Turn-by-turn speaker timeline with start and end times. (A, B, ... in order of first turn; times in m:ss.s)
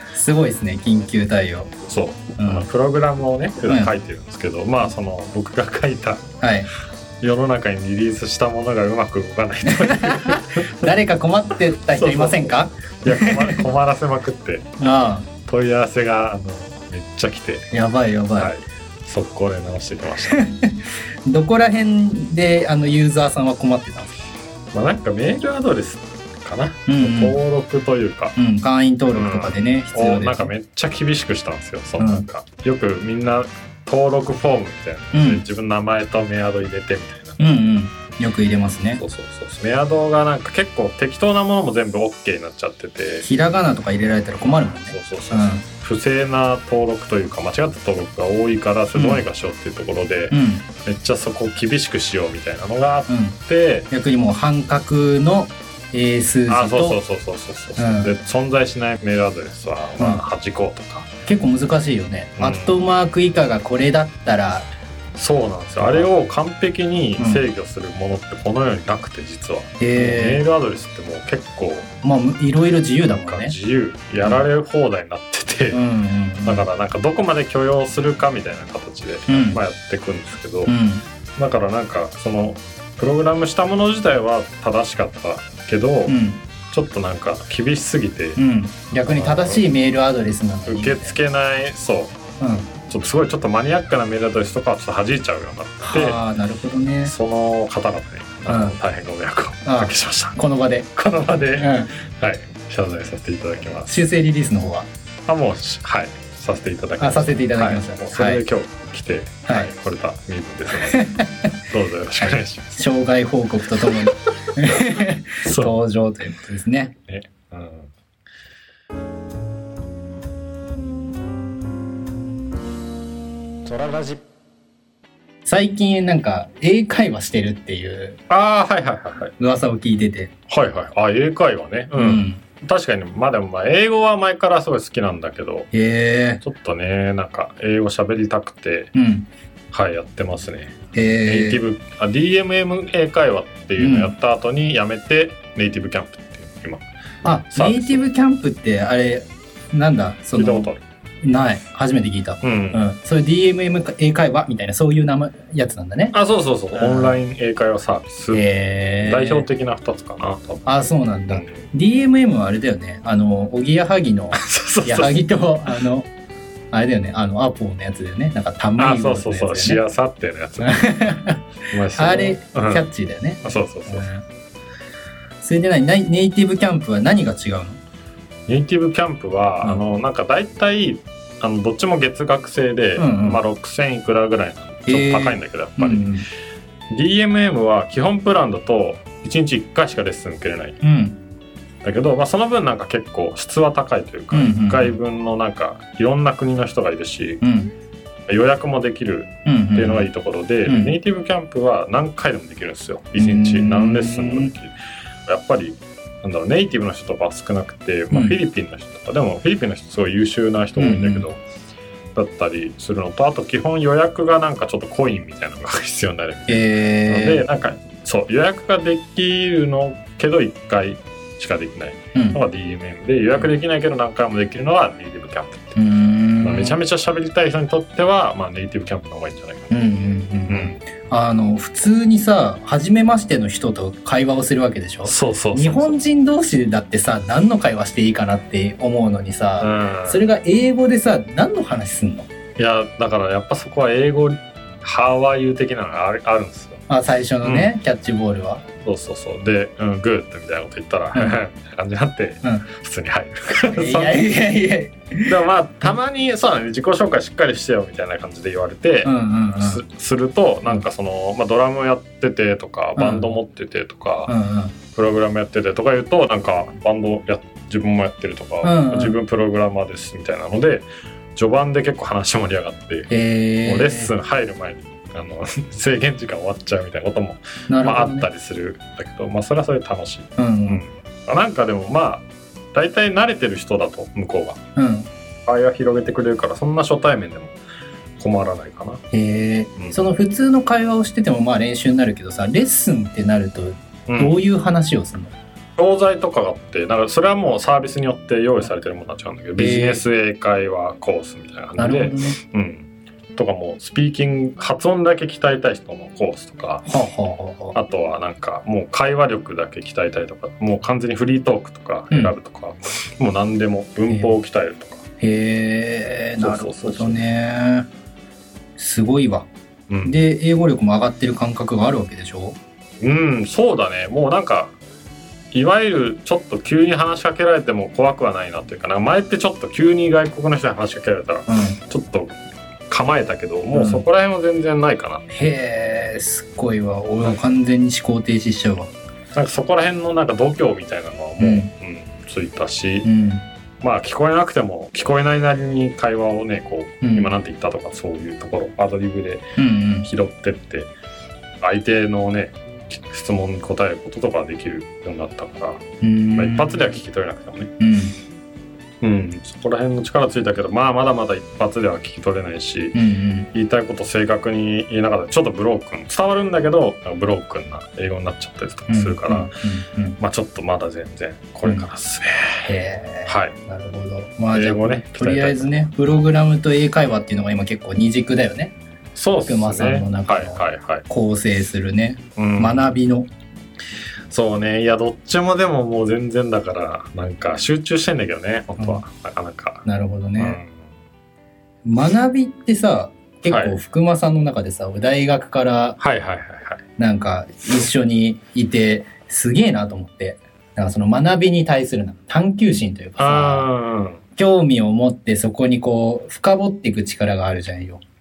0:00.1-0:01.8 A
0:01.8-0:06.3 B
0:02.4-0:02.7 A
0:03.7-0:03.9 A
0:06.4-0:06.7 A
0:07.2-0:10.9 B
0:09.8-0:13.6 A
0:11.9-0:14.7 B
0:14.8-0:15.3 A
0:15.4-0:17.7 B
0:17.7-0:18.5 A
0:18.4-0:20.5 B
0:20.3-0:24.1 A
0:24.7-0:28.4 B
0:26.9-0:27.4 A
0:28.4-0:30.5 A
0:29.1-0:37.4 B
0:32.0-0:32.2 A
0:35.1-0:35.4 A
0:37.4-0:39.0 A
0:39.0-0:43.3 B
0:43.2-0:45.6 A
0:44.9-0:53.9 B
0:48.9-0:49.2 A
0:50.3-0:50.7 A
0:53.1-0:53.4 A
0:53.9-0:57.0 A
0:56.5-1:01.1 B
0:57.8-0:58.1 A
1:01.3-1:04.7 A
1:02.4-1:02.8 B
1:05.1-1:11.9 B
1:05.8-1:06.1 A
1:07.2-1:07.4 A
1:09.8-1:10.4 A
1:12.0-1:13.5 A
1:13.1-1:15.8 B
1:15.7-1:16.7 A
1:16.4-1:20.7 B
1:19.3-1:19.6 A
1:20.6-1:21.0 A
1:21.4-1:26.2 B
1:26.1-1:26.4 A
1:26.7-1:28.4 B
1:28.4-1:31.2 A
1:29.0-1:29.6 B
1:30.6-1:32.2 B
1:32.4-1:32.7 A
1:32.9-1:36.2 B
1:35.9-1:37.1 A
1:37.0-1:40.4 B
1:38.5-1:38.8 A
1:39.6-1:40.9 A
1:41.0-1:44.0 B
1:41.5-1:41.9 A
1:43.8-1:44.9 A
1:45.3-1:51.1 B
1:47.0-1:48.4 A
1:49.5-1:49.7 A
1:50.8-1:51.5 A
1:51.7-1:52.7 B
1:52.3-1:56.9 A
1:55.4-1:55.7 B
1:57.0-1:57.9 B
2:05.4-2:08.2 A
2:08.3-2:09.3 B
2:09.4-2:10.3 A
2:10.5-2:15.7 B
2:11.9-2:12.4 A
2:15.7-2:16.4 A
2:16.4-2:18.9 B
2:18.9-2:19.3 A
2:19.7-2:26.8 B
2:20.9-2:21.6 A
2:23.8-2:24.1 A
2:27.2-2:30.7 A
2:27.5-2:28.0 B
2:30.3-2:30.8 B
2:31.2-2:36.1 A
2:32.4-2:32.8 B
2:36.1-2:38.4 B
2:36.7-2:37.2 A
2:38.3-2:39.4 A
2:39.0-2:40.7 B
2:40.6-2:46.1 A
2:41.3-2:41.7 B
2:44.3-2:45.2 B
2:46.7-2:49.8 A
2:48.8-2:50.9 B
2:50.6-2:51.4 A
2:51.7-2:52.8 B
2:51.9-2:54.2 A
2:53.4-2:54.1 B
2:55.4-2:57.8 A
2:58.5-3:06.1 B
3:03.0-3:03.4 A
3:04.9-3:06.3 A
3:06.9-3:10.8 B
3:10.8-3:11.2 A
3:11.8-3:17.4 B
3:14.3-3:14.9 A
3:17.4-3:17.7 A
3:18.3-3:24.7 B
3:19.4-3:20.1 A
3:20.6-3:20.9 A
3:23.2-3:24.5 A
3:25.2-3:31.4 B
3:28.1-3:28.4 A
3:30.8-3:31.2 A
3:32.1-3:45.8 B
3:36.5-3:37.4 A
3:42.1-3:42.4 A
3:45.8-3:46.8 A
3:46.4-3:49.7 B
3:49.7-4:02.3 A
3:50.5-3:50.8 B
3:55.0-3:56.0 B
3:59.6-4:00.2 B
4:02.6-4:06.8 B
4:06.9-4:08.6 A
4:07.4-4:07.7 B
4:08.8-4:14.3 B
4:13.6-4:15.4 A
4:15.2-4:24.3 B
4:19.0-4:19.8 A
4:23.0-4:23.3 A
4:24.3-4:24.7 A
4:24.9-4:33.1 B
4:28.6-4:29.2 A
4:33.1-4:34.1 A
4:33.6-4:44.6 B
4:37.7-4:38.3 A
4:40.4-4:40.8 A
4:44.8-4:45.1 A
4:45.4-4:47.6 B
4:48.2-4:49.0 B
4:49.1-4:55.3 A
4:54.1-4:54.4 B
4:55.8-5:06.9 B
4:59.6-5:00.0 A
5:01.8-5:02.4 A
5:06.9-5:07.8 A
5:07.7-5:15.0 B
5:15.2-5:17.9 A
5:16.4-5:17.2 B
5:18.8-5:19.5 A
5:19.9-5:20.2 B
5:20.0-5:22.6 A
5:23.0-5:24.8 B
5:25.5-5:32.4 B
5:31.5-5:31.8 A
5:32.9-5:35.2 B
5:33.7-5:34.0 A
5:35.3-5:38.9 A
5:39.3-5:43.1 B
5:41.4-5:41.7 A
5:43.0-5:43.4 A
5:43.8-5:50.9 B
5:47.0-5:47.3 A
5:49.6-5:50.1 A
5:51.6-5:57.7 B
5:56.0-5:56.8 A
5:57.8-5:58.2 A
5:59.0-6:03.0 B
6:02.9-6:03.5 A
6:03.5-6:09.5 B
6:08.9-6:10.2 A
6:10.2-6:12.7 B
6:12.6-6:18.7 A
6:13.2-6:13.6 B
6:14.5-6:15.7 B
6:19.1-6:21.0 B
6:19.4-6:23.3 A
6:22.4-6:22.8 B
6:24.3-6:29.8 B
6:29.8-6:30.6 A
6:30.4-6:30.9 B
6:31.8-6:36.0 A
6:33.5-6:33.8 B
6:36.0-6:36.8 B
6:37.0-6:43.7 A
6:43.2-6:44.2 B
6:44.4-6:48.0 A